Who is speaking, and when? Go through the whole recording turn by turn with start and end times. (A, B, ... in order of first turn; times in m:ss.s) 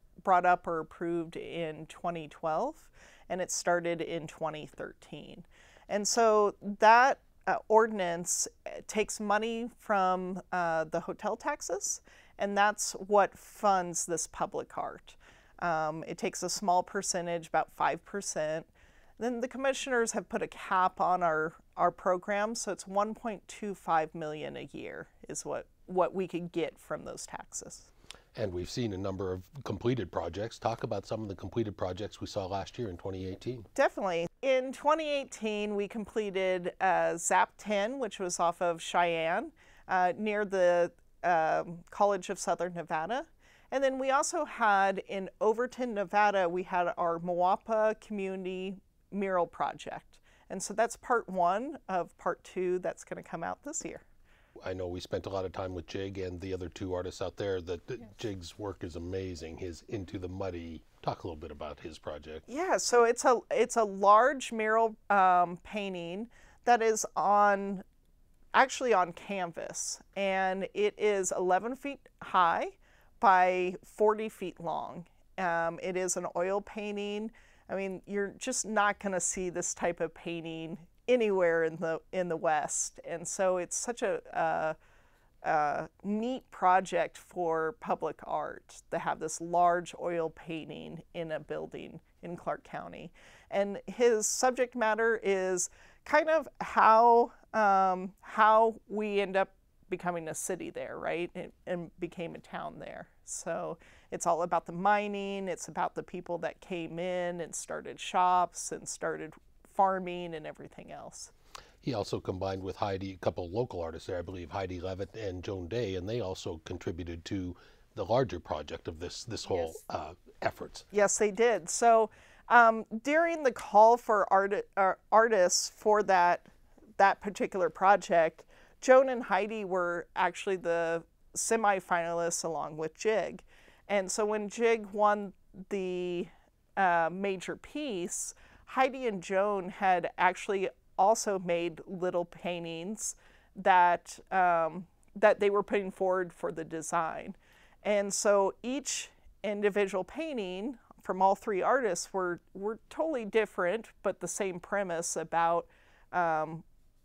0:00.2-0:27.9 A
0:28.3-0:33.7 B
0:33.7-0:54.0 A
0:54.6-1:02.4 B
1:02.5-1:07.8 A
1:08.5-1:24.8 A
1:25.4-1:51.3 A
1:51.8-2:00.8 B
2:00.9-2:36.6 A